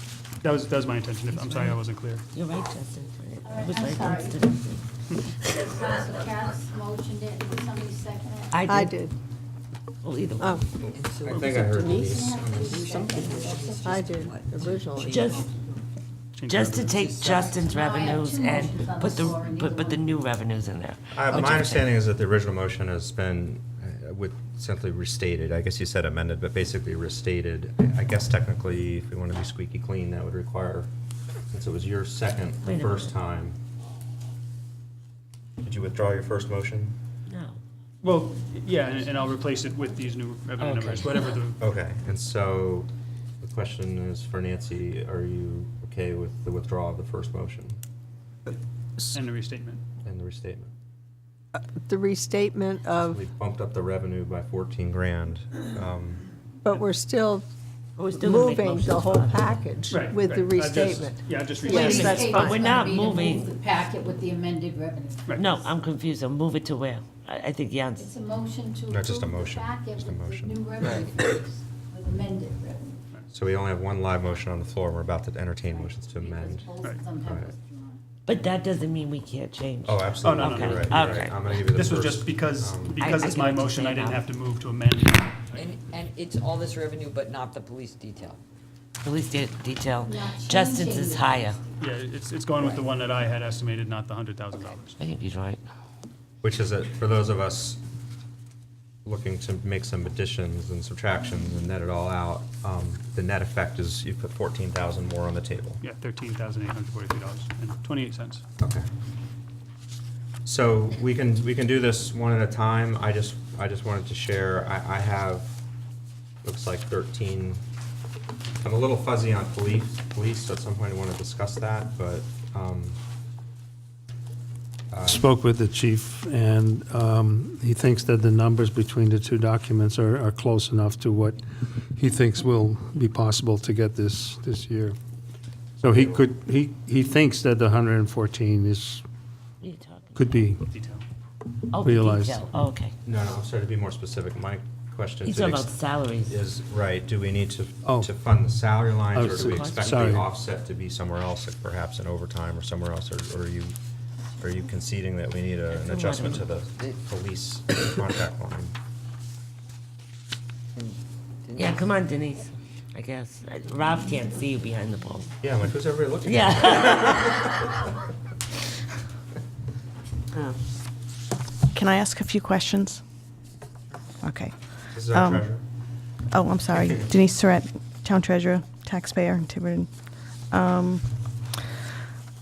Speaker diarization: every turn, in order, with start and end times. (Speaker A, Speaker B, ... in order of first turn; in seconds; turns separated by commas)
Speaker A: 0.4-2.2, Speaker B: 1.3-1.8, Speaker B: 2.3-4.8, Speaker C: 3.4-4.5, Speaker C: 5.4-8.6, Speaker B: 8.5-9.1, Speaker D: 8.7-9.1, Speaker B: 10.0-10.6, Speaker E: 10.8-13.4, Speaker F: 10.9-15.6, Speaker C: 12.1-14.0, Speaker D: 13.8-15.1, Speaker B: 15.0-15.5, Speaker A: 16.4-17.3, Speaker B: 16.5-22.0, Speaker C: 17.4-20.2, Speaker E: 21.1-30.9, Speaker E: 31.5-33.6, Speaker B: 32.6-33.1, Speaker E: 35.6-37.0, Speaker B: 37.3-37.6, Speaker A: 38.0-41.6, Speaker B: 40.6-41.2, Speaker E: 41.6-42.9, Speaker E: 43.4-47.8, Speaker A: 48.5-49.8, Speaker E: 50.0-50.7, Speaker D: 51.9-53.2, Speaker E: 53.0-56.2, Speaker D: 56.6-57.5, Speaker B: 58.0-59.7, Speaker D: 58.2-62.6, Speaker A: 59.9-62.5, Speaker C: 61.6-65.5, Speaker B: 61.7-63.5, Speaker B: 65.3-68.2, Speaker C: 68.0-73.0, Speaker E: 68.9-70.8, Speaker E: 73.3-77.5, Speaker C: 75.7-78.0, Speaker B: 78.3-81.7, Speaker E: 79.8-83.0, Speaker A: 80.2-85.7, Speaker B: 83.0-84.2, Speaker F: 85.5-88.4, Speaker B: 89.0-91.6, Speaker C: 90.0-91.7, Speaker A: 91.8-95.0, Speaker B: 95.0-95.6, Speaker E: 96.4-97.8, Speaker E: 99.0-105.8, Speaker A: 105.8-108.4, Speaker E: 108.6-108.8, Speaker E: 110.5-115.5, Speaker E: 116.4-117.6, Speaker E: 118.6-123.0, Speaker E: 124.9-125.2, Speaker G: 125.0-135.0, Speaker G: 135.8-139.0, Speaker E: 135.9-136.3, Speaker B: 139.6-140.3, Speaker G: 140.2-140.6, Speaker A: 140.7-141.0, Speaker B: 141.7-142.9, Speaker G: 141.8-142.5, Speaker E: 143.1-153.8, Speaker B: 145.2-146.3, Speaker G: 147.8-148.1, Speaker G: 149.1-150.3, Speaker B: 149.2-150.2, Speaker E: 154.4-158.7, Speaker B: 155.7-156.5, Speaker F: 161.5-161.8, Speaker B: 161.6-165.3, Speaker E: 165.4-167.6, Speaker B: 166.2-167.7, Speaker H: 171.7-173.0, Speaker H: 174.2-174.5, Speaker E: 174.9-175.6, Speaker H: 175.1-175.5, Speaker H: 176.3-179.9, Speaker H: 180.5-181.0